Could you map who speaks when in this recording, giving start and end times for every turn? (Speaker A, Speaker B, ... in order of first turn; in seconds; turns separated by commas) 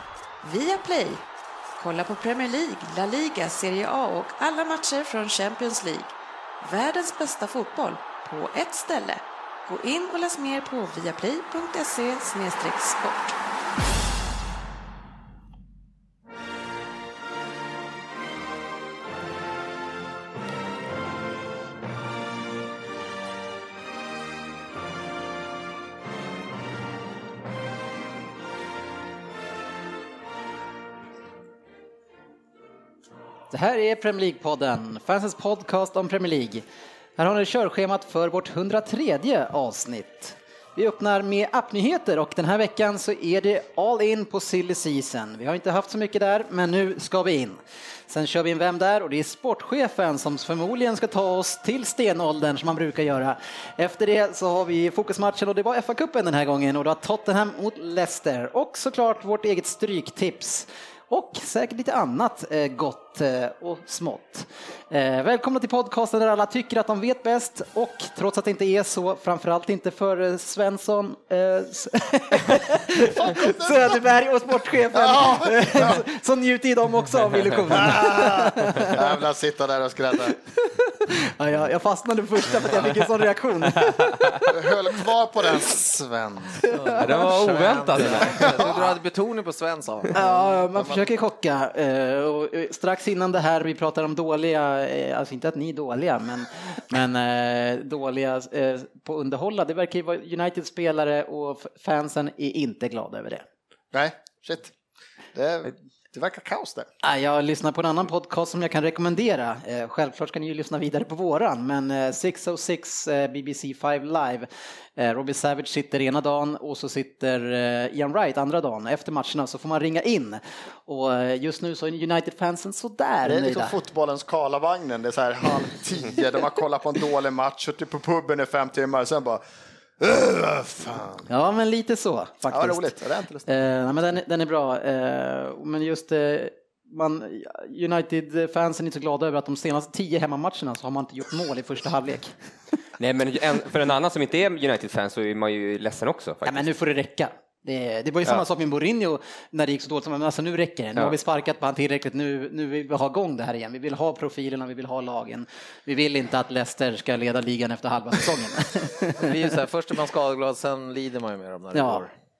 Speaker A: 0.4-1.2, Speaker A: 1.8-13.3, Speaker B: 33.5-36.6, Speaker B: 37.2-79.1, Speaker C: 73.0-74.2, Speaker C: 74.7-76.0, Speaker C: 77.7-80.4, Speaker B: 80.5-84.5, Speaker D: 84.0-84.4, Speaker C: 84.5-86.6, Speaker B: 86.6-87.2, Speaker E: 86.7-90.2, Speaker D: 87.0-88.7, Speaker C: 88.3-88.9, Speaker C: 90.1-91.1, Speaker B: 90.1-103.4, Speaker C: 103.9-104.7, Speaker C: 105.3-106.9, Speaker B: 107.0-123.7, Speaker C: 123.2-129.4, Speaker C: 130.0-131.3, Speaker B: 131.3-142.3, Speaker C: 132.5-133.5, Speaker D: 143.0-146.6, Speaker B: 146.4-159.5, Speaker E: 159.2-162.1, Speaker B: 161.7-162.0